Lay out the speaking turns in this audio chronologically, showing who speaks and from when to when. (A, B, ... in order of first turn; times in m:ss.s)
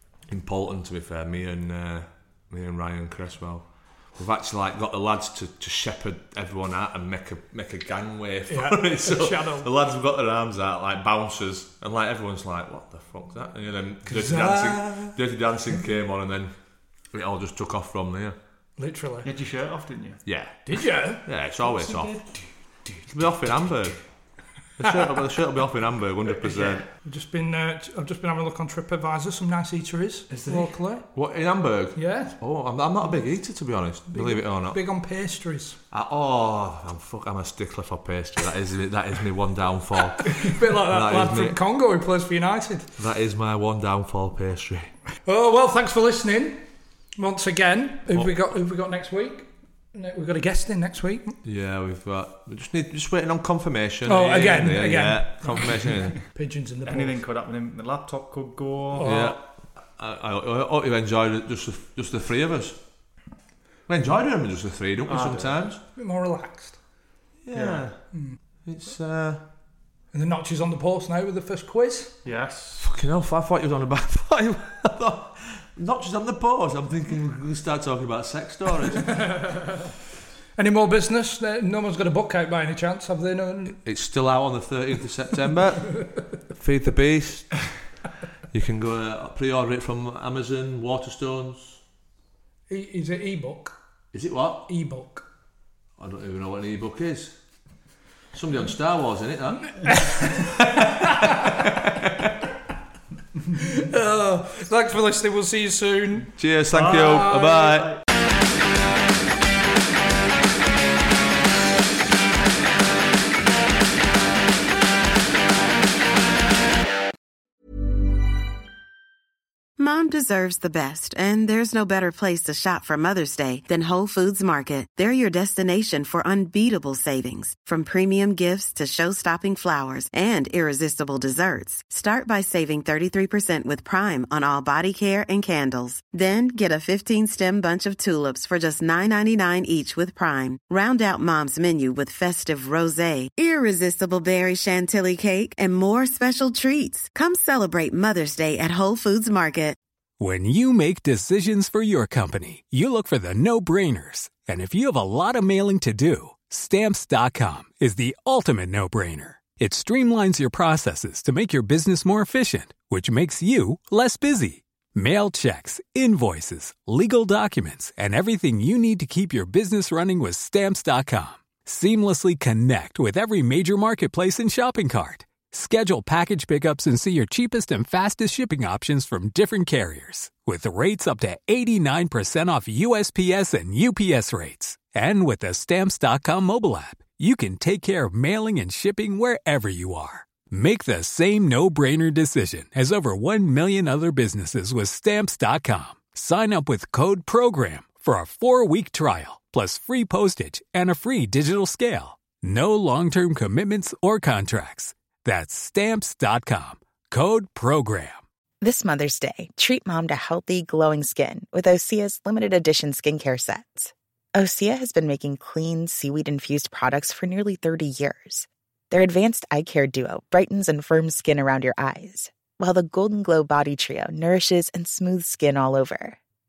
0:00.3-0:16.5 A
0:08.5-0:09.7 B
0:14.1-0:15.2 B
0:17.1-0:18.4 A
0:18.8-0:19.3 B
0:19.2-0:20.2 C
0:20.3-0:22.2 A
0:20.7-0:21.2 B
0:21.6-0:23.0 C
0:23.1-0:24.0 A
0:24.8-0:26.8 A
0:26.4-0:26.8 C
0:27.0-0:31.1 B
0:30.3-0:30.8 C
0:31.1-0:34.8 A
0:32.0-0:32.4 B
0:34.1-0:35.8 B
0:35.9-0:41.6 A
0:40.4-0:42.9 B
0:43.0-0:44.9 A
0:45.2-0:46.6 B
0:47.2-0:51.4 B
0:51.4-0:56.2 A
0:54.1-0:57.2 B
0:56.8-0:59.1 C
0:59.0-0:59.4 B
0:59.0-1:02.8 A
1:03.9-1:05.8 A
1:05.1-1:05.6 C
1:06.0-1:06.8 B
1:07.4-1:08.1 A
1:07.5-1:07.9 C
1:08.1-1:08.4 B
1:08.6-1:09.4 A
1:10.1-1:12.2 B
1:12.2-1:12.8 C
1:12.8-1:19.3 A
1:19.2-1:19.6 B
1:20.6-1:23.8 B
1:23.8-1:27.7 A
1:28.5-1:31.8 A
1:32.7-1:33.8 B
1:34.1-1:34.7 A
1:34.7-1:35.3 B
1:36.0-1:37.4 A
1:38.3-1:41.5 A
1:39.8-1:40.4 B
1:43.5-1:47.7 B
1:46.4-1:48.0 A
1:46.8-1:47.4 C
1:59.8-2:29.8 D
2:30.2-3:28.2 E
3:28.6-3:46.2 F